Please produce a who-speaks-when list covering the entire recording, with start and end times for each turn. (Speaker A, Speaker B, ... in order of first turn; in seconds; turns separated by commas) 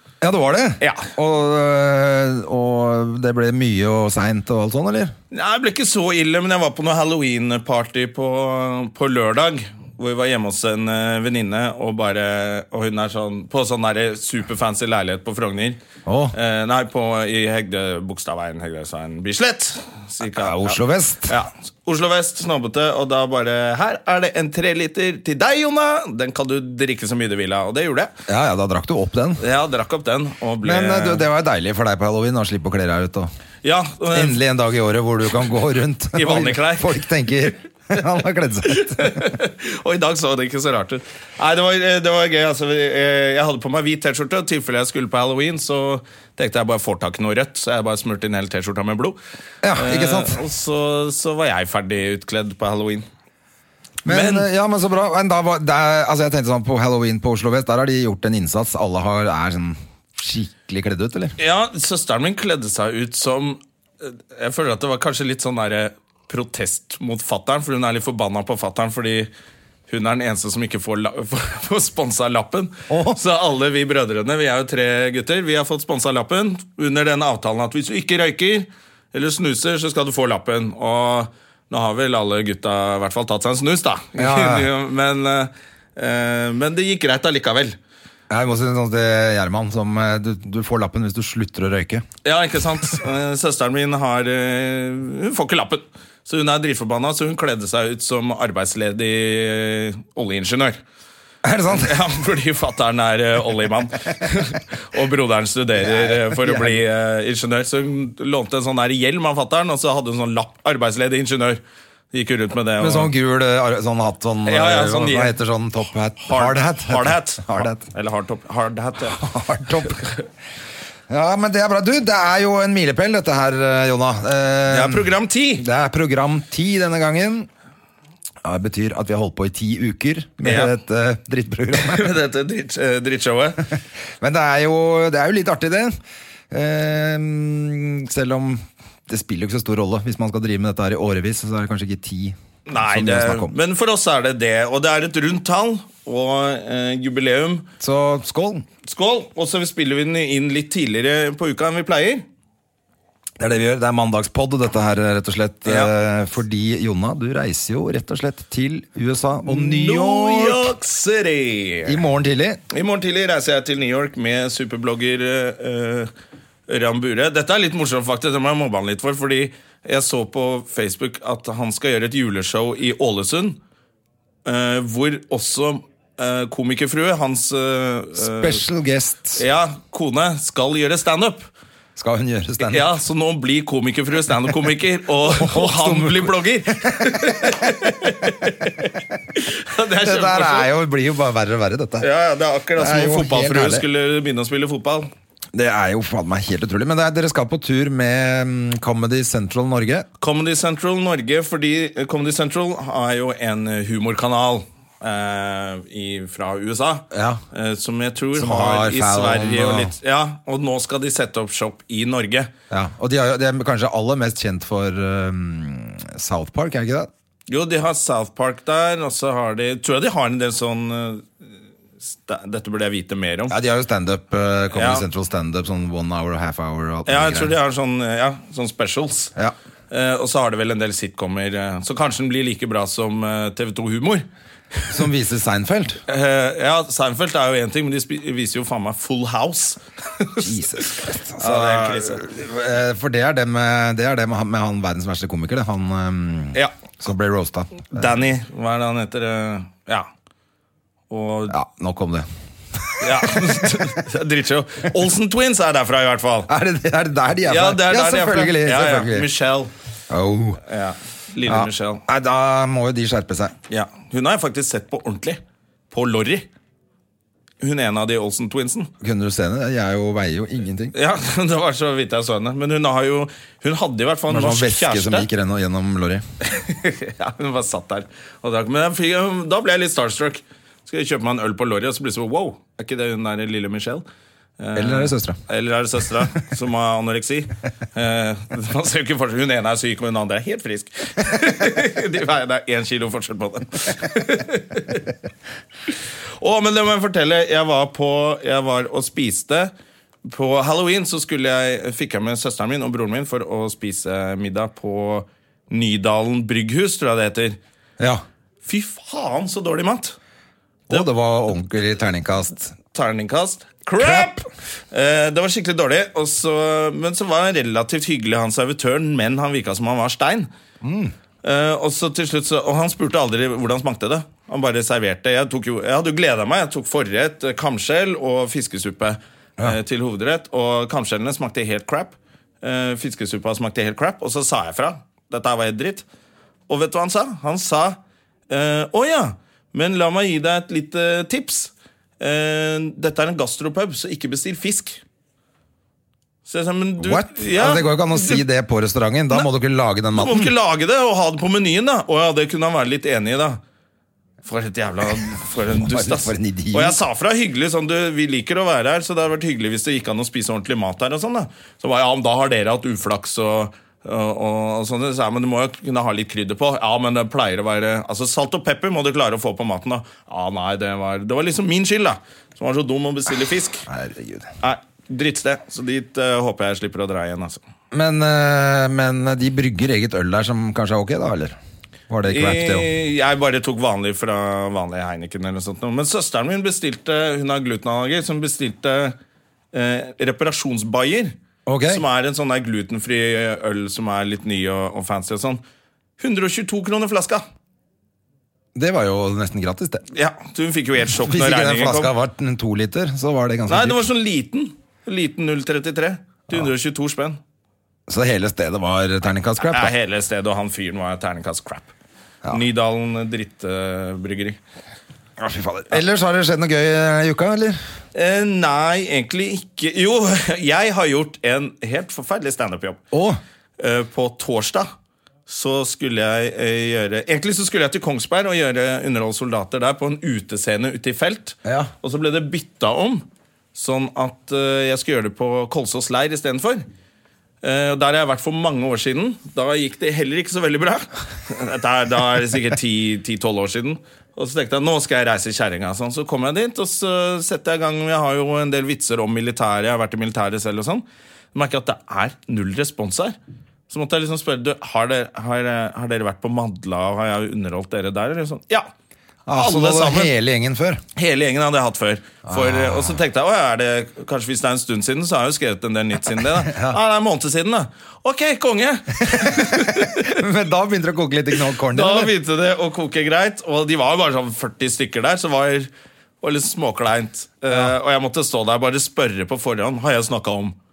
Speaker A: 0.2-5.1, Speaker B: 0.8-1.1, Speaker B: 5.3-15.8, Speaker A: 16.1-16.3, Speaker B: 16.3-28.1, Speaker A: 20.3-21.3, Speaker A: 28.3-29.4, Speaker B: 29.4-31.2, Speaker A: 30.6-33.3, Speaker B: 33.6-34.4, Speaker A: 34.1-39.3, Speaker B: 36.1-37.0, Speaker B: 38.7-49.2, Speaker A: 49.6-50.4, Speaker B: 49.7-53.1, Speaker A: 54.0-61.4, Speaker B: 54.1-54.5, Speaker B: 61.4-69.3, Speaker B: 69.9-87.8, Speaker A: 72.9-73.2, Speaker A: 84.2-84.7, Speaker A: 88.3-92.0, Speaker B: 92.2-100.8, Speaker A: 101.4-102.0, Speaker B: 101.7-111.6, Speaker A: 105.8-106.8, Speaker B: 112.1-113.1, Speaker A: 112.8-117.9, Speaker B: 114.5-115.3, Speaker B: 116.2-119.2, Speaker A: 119.1-120.1, Speaker A: 121.1-127.5, Speaker B: 124.7-125.6, Speaker A: 128.4-132.1, Speaker B: 130.4-130.7, Speaker B: 131.8-133.7, Speaker A: 134.2-135.9, Speaker A: 136.5-143.5, Speaker B: 142.7-147.7, Speaker A: 147.8-148.7, Speaker B: 148.8-152.3, Speaker A: 153.4-160.7, Speaker B: 155.7-155.9, Speaker B: 159.5-162.0, Speaker A: 161.9-162.6, Speaker B: 162.7-166.1, Speaker B: 166.7-173.6, Speaker B: 174.4-178.6, Speaker A: 178.2-179.4, Speaker B: 179.3-181.5, Speaker A: 182.0-182.9, Speaker B: 182.6-190.7, Speaker A: 185.3-187.7, Speaker A: 190.0-192.1, Speaker B: 192.0-195.1, Speaker A: 192.8-193.8, Speaker A: 195.5-200.1, Speaker B: 200.2-212.5, Speaker A: 207.1-207.4, Speaker A: 208.4-209.9, Speaker A: 212.7-217.1, Speaker B: 217.5-221.3, Speaker B: 222.1-223.6, Speaker A: 223.5-227.5, Speaker B: 224.7-225.1, Speaker B: 227.1-229.3, Speaker B: 229.9-235.0, Speaker A: 234.9-236.0, Speaker B: 236.1-242.2, Speaker A: 240.4-248.1, Speaker B: 247.9-250.1, Speaker B: 251.1-251.6, Speaker A: 251.5-253.7, Speaker B: 253.0-256.5, Speaker A: 256.5-259.3, Speaker B: 257.4-259.7, Speaker A: 260.1-260.6, Speaker B: 260.6-262.0, Speaker A: 261.4-263.6, Speaker B: 263.7-266.5, Speaker B: 267.6-268.9, Speaker A: 269.0-270.9, Speaker B: 270.9-275.3, Speaker A: 274.3-276.2, Speaker B: 276.4-284.1, Speaker B: 284.6-295.1, Speaker A: 284.8-285.4, Speaker B: 295.9-299.7, Speaker B: 300.3-307.6, Speaker B: 308.6-310.2, Speaker A: 310.9-312.8, Speaker B: 312.9-320.5, Speaker A: 314.0-314.3, Speaker A: 320.8-321.1, Speaker B: 321.4-336.1, Speaker B: 336.7-338.0, Speaker B: 338.5-345.0, Speaker B: 346.5-348.4, Speaker A: 347.0-350.5, Speaker B: 350.1-353.6, Speaker B: 354.4-373.9, Speaker A: 355.6-357.0, Speaker A: 373.9-374.5, Speaker B: 374.6-377.6, Speaker A: 377.9-381.6, Speaker A: 382.1-382.9, Speaker B: 382.3-389.2, Speaker B: 389.7-391.4, Speaker A: 391.7-392.0, Speaker B: 391.9-395.6, Speaker B: 396.2-397.4, Speaker A: 398.8-400.1, Speaker B: 400.1-402.1, Speaker A: 401.1-404.0, Speaker B: 403.7-407.4, Speaker A: 408.1-409.9, Speaker B: 409.6-411.9, Speaker B: 412.5-414.6, Speaker A: 415.4-417.8, Speaker B: 418.1-423.0, Speaker A: 423.1-423.4, Speaker B: 423.8-424.9, Speaker B: 425.5-433.2, Speaker A: 431.6-431.9, Speaker B: 433.8-436.9, Speaker B: 437.6-453.4, Speaker B: 453.9-458.9, Speaker A: 459.5-461.0, Speaker B: 459.6-460.3, Speaker B: 461.2-470.4, Speaker A: 462.5-463.2, Speaker A: 466.5-467.0, Speaker A: 469.2-472.3, Speaker B: 471.8-475.9, Speaker B: 476.4-480.8